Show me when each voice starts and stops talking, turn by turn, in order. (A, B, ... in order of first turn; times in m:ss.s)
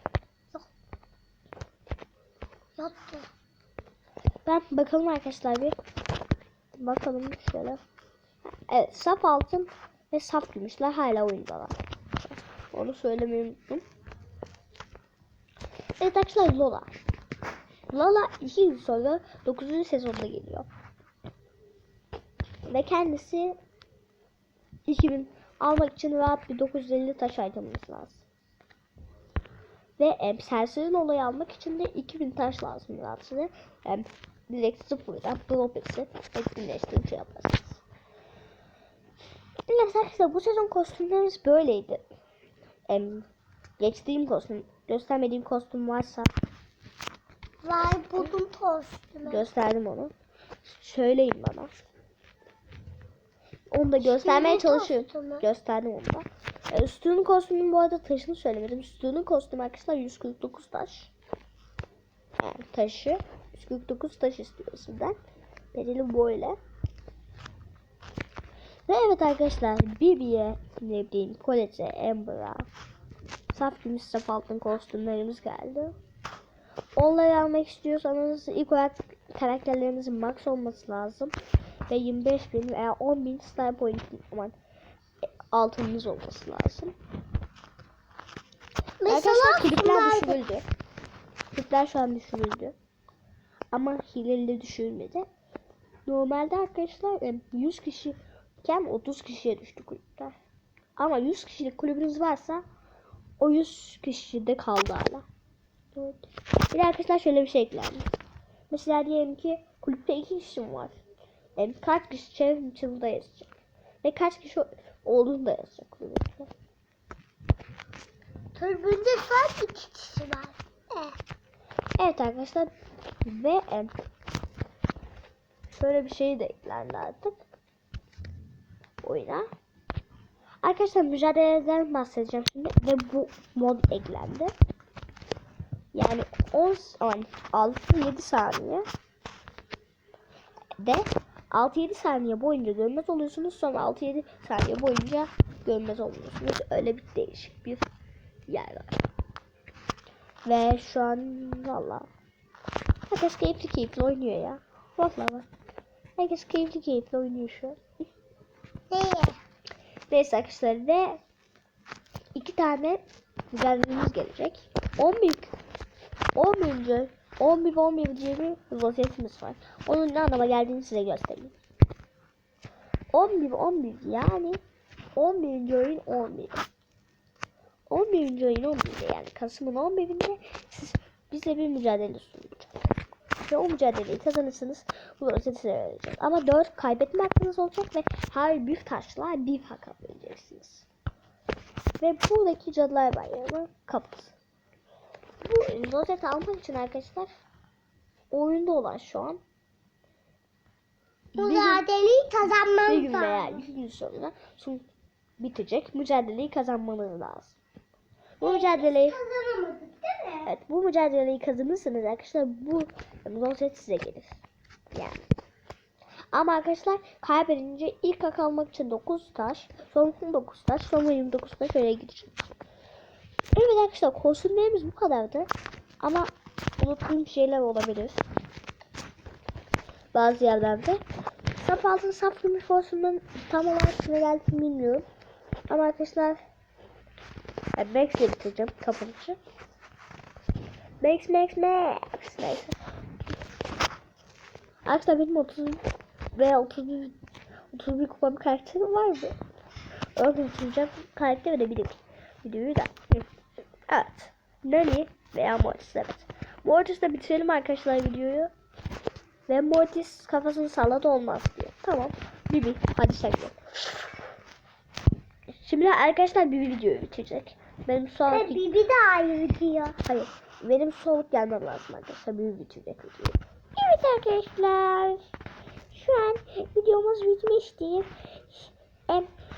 0:02.8-0:03.3 A
0:04.4-0:05.8 B
0:06.8-0:07.8 B
0:08.4-0:13.8 B
0:16.0-0:17.0 B
0:17.9-0:20.7 B
0:22.7-0:23.6 B
0:24.9-0:28.2 B
0:30.0-0:37.8 B
0:39.7-0:42.0 B
0:42.9-0:43.3 B
0:43.8-0:46.3 B
0:47.6-0:49.4 A
0:49.2-0:50.1 B
0:50.6-0:51.8 B
0:53.7-1:01.1 B
0:54.0-0:55.4 A
1:02.4-1:05.2 B
1:05.7-1:06.6 B
1:08.9-1:12.7 B
1:13.5-1:16.0 B
1:17.0-1:21.4 B
1:21.9-1:24.6 B
1:25.5-1:27.0 B
1:29.0-1:30.4 A
1:29.1-1:30.7 B
1:31.5-1:32.8 B
1:33.7-1:35.3 B
1:36.1-1:40.4 B
1:41.0-1:42.6 B
1:43.4-1:45.2 B
1:46.0-1:48.1 B
1:48.7-1:51.0 B
1:51.6-1:53.5 B
1:54.0-1:56.5 B
1:58.6-2:01.2 A
2:02.0-2:02.7 B
2:03.2-2:04.0 B
2:05.8-2:07.4 B
2:09.0-2:09.5 B
2:10.6-2:14.5 B
2:15.9-2:18.9 B
2:20.8-2:27.9 B
2:28.5-2:29.0 B
2:30.4-2:32.1 B
2:33.1-2:35.5 B
2:36.2-2:37.8 B
2:38.9-2:39.4 A
2:40.1-2:41.2 B
2:42.4-2:45.5 B
2:46.4-2:51.5 B
2:53.1-2:54.6 B
2:55.2-2:56.6 B
2:57.9-3:02.7 B
3:03.4-3:10.9 B
3:12.0-3:14.4 B
3:15.4-3:17.3 B
3:18.3-3:19.4 B
3:21.3-3:21.8 B
3:21.4-3:23.6 A
3:22.8-3:24.8 B
3:25.4-3:27.6 B
3:28.4-3:29.2 B
3:28.4-3:30.5 A
3:30.4-3:34.4 B
3:34.9-3:35.2 B
3:36.3-3:42.5 B
3:43.6-3:48.2 B
3:50.1-3:51.0 B
3:51.6-3:55.1 B
3:55.7-3:56.4 B
3:57.8-3:59.4 B
4:01.0-4:02.8 B
4:04.8-4:05.8 B
4:06.3-4:07.2 B
4:07.7-4:09.4 B
4:10.2-4:13.3 B
4:13.9-4:18.5 B
4:19.5-4:24.0 B
4:25.6-4:28.7 B
4:28.3-4:30.0 A
4:30.0-4:35.2 B
4:35.9-4:39.3 B